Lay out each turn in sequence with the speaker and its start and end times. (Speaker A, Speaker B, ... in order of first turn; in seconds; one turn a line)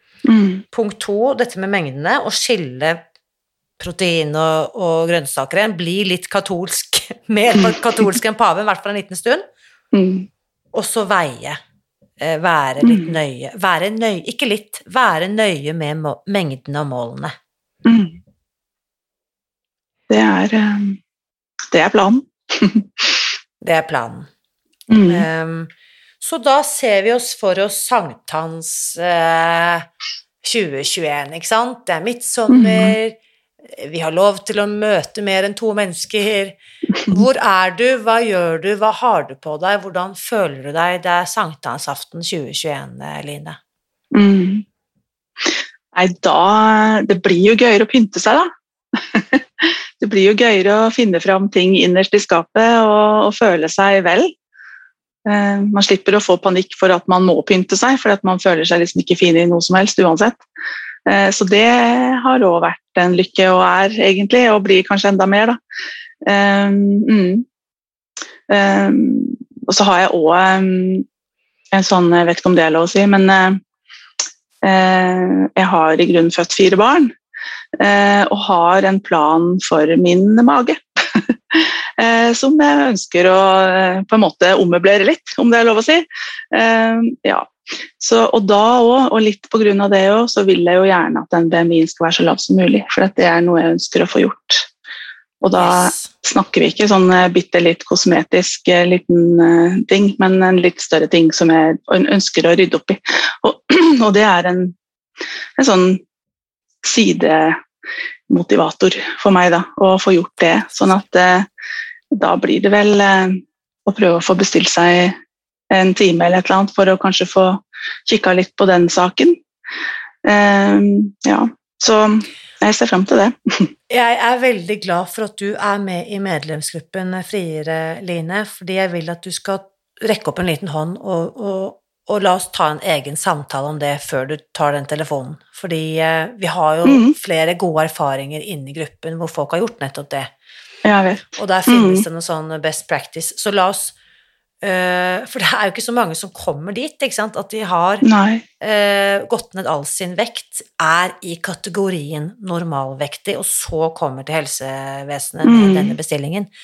Speaker A: 0.2-0.6
Speaker B: 0.7-3.0
Speaker B: 3.8-9.5
Speaker A: 7.6-8.1
Speaker A: 9.9-10.3
Speaker B: 10.7-11.6
Speaker B: 12.2-17.4
Speaker A: 12.8-13.1
Speaker A: 17.9-18.2
Speaker A: 20.1-21.0
Speaker A: 21.7-23.1
Speaker B: 23.6-24.3
Speaker A: 24.9-25.3
Speaker B: 25.1-29.9
Speaker B: 30.4-33.2
Speaker A: 32.5-33.0
Speaker B: 33.7-36.6
Speaker B: 37.1-43.6
Speaker A: 44.1-44.6
Speaker A: 45.5-54.3
Speaker A: 55.3-60.4
Speaker A: 61.1-65.6
Speaker A: 66.3-67.5
Speaker A: 68.5-71.1
Speaker A: 71.7-73.6
Speaker A: 74.6-77.1
Speaker A: 77.8-94.7
Speaker A: 95.4-104.8
Speaker B: 95.6-96.1
Speaker A: 105.6-106.0
Speaker A: 106.8-107.6
Speaker A: 108.3-111.5
Speaker A: 112.1-115.2
Speaker A: 115.7-119.4
Speaker A: 120.2-123.7
Speaker B: 123.9-140.3
Speaker A: 136.9-137.2
Speaker A: 140.8-142.1
Speaker B: 141.4-143.9
Speaker B: 144.6-148.1
Speaker A: 148.1-148.4
Speaker B: 148.6-156.5
Speaker A: 155.4-155.9